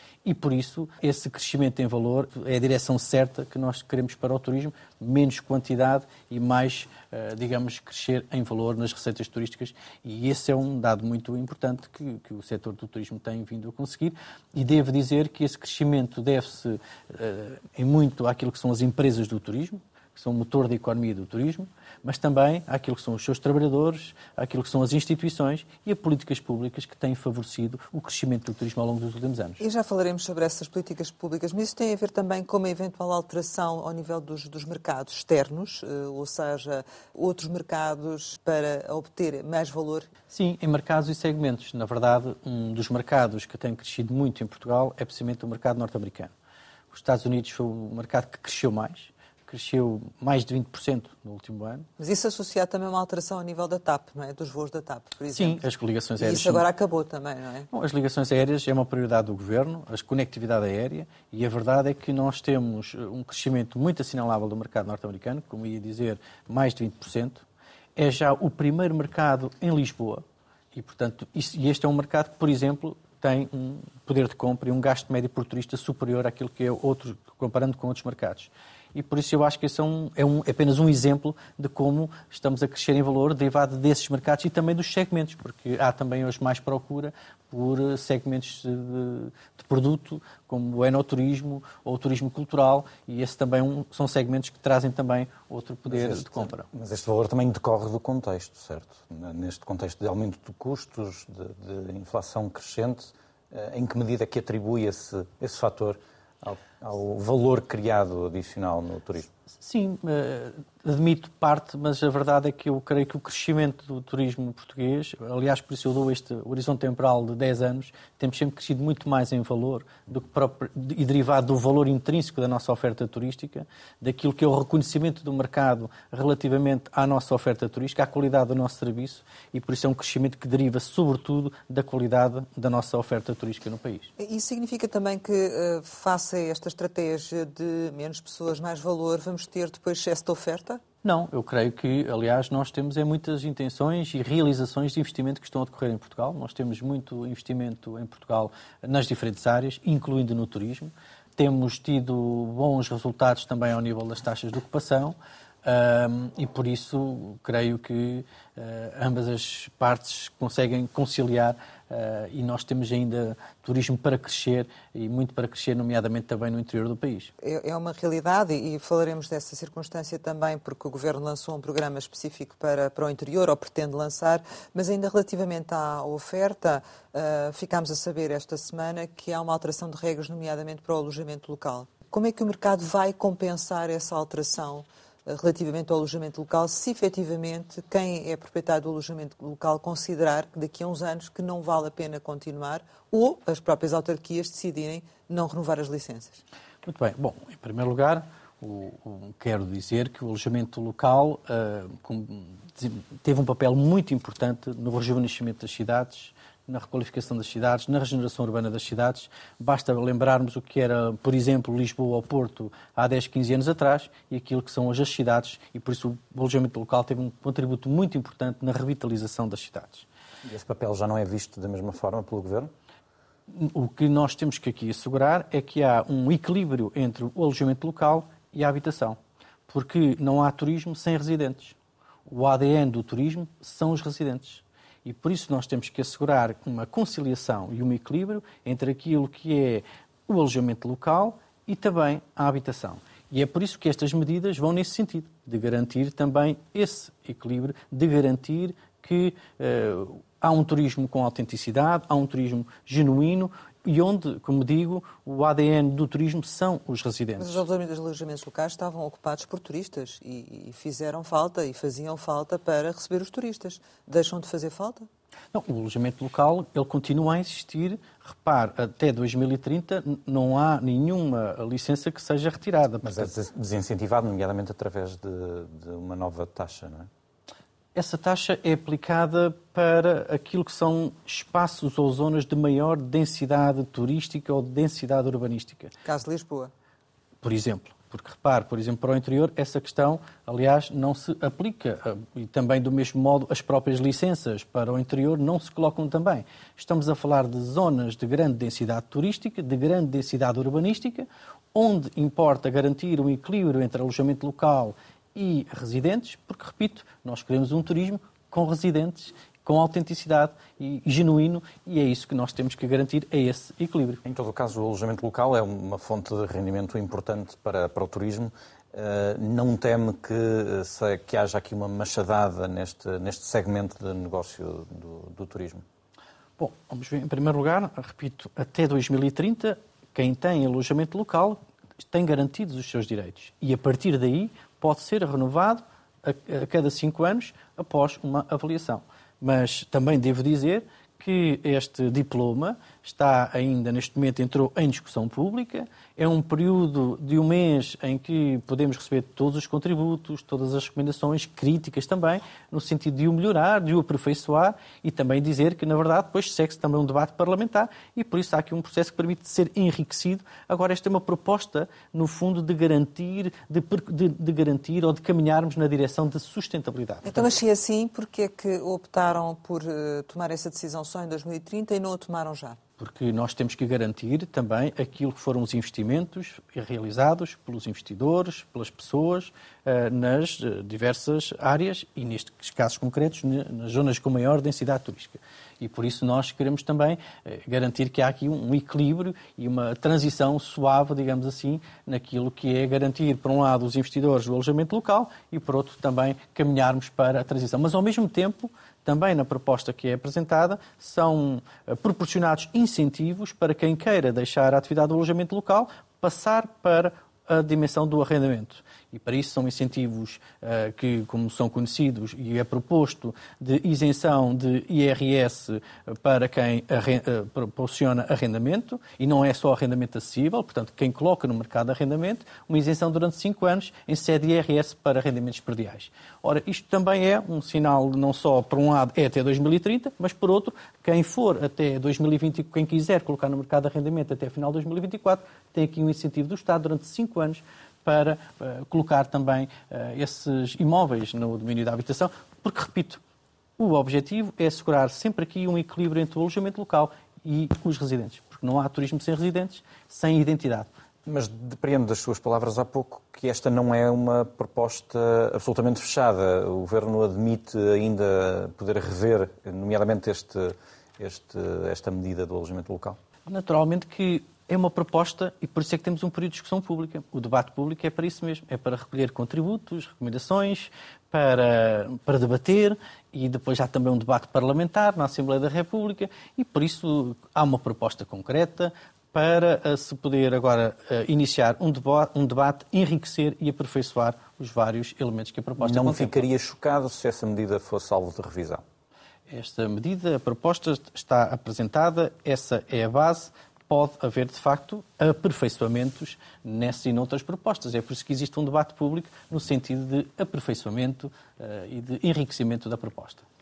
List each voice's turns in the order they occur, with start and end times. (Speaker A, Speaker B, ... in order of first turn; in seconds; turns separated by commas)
Speaker A: 0.2-29.6, Speaker B: 29.6-40.1, Speaker A: 40.3-46.3, Speaker A: 46.9-51.9, Speaker B: 52.0-55.6, Speaker A: 55.3-56.6, Speaker B: 56.2-57.7, Speaker A: 57.7-67.4, Speaker A: 68.0-96.7, Speaker C: 95.9-109.3, Speaker A: 109.5-134.1, Speaker B: 134.2-140.8, Speaker A: 141.0-167.3, Speaker B: 167.4-196.4, Speaker A: 196.8-220.1, Speaker C: 220.4-222.7, Speaker A: 223.5-231.8, Speaker A: 232.3-257.6, Speaker B: 257.4-265.1, Speaker A: 265.5-273.3, Speaker C: 273.0-277.1, Speaker A: 277.9-285.9, Speaker B: 286.0-286.7, Speaker A: 287.4-314.2, Speaker C: 314.2-325.8, Speaker A: 326.6-331.6, Speaker A: 332.1-367.5, Speaker B: 367.2-372.8, Speaker A: 373.0-443.2, Speaker A: 443.8-450.9, Speaker C: 451.2-463.2, Speaker A: 463.4-486.4, Speaker C: 485.8-488.8, Speaker A: 489.5-503.4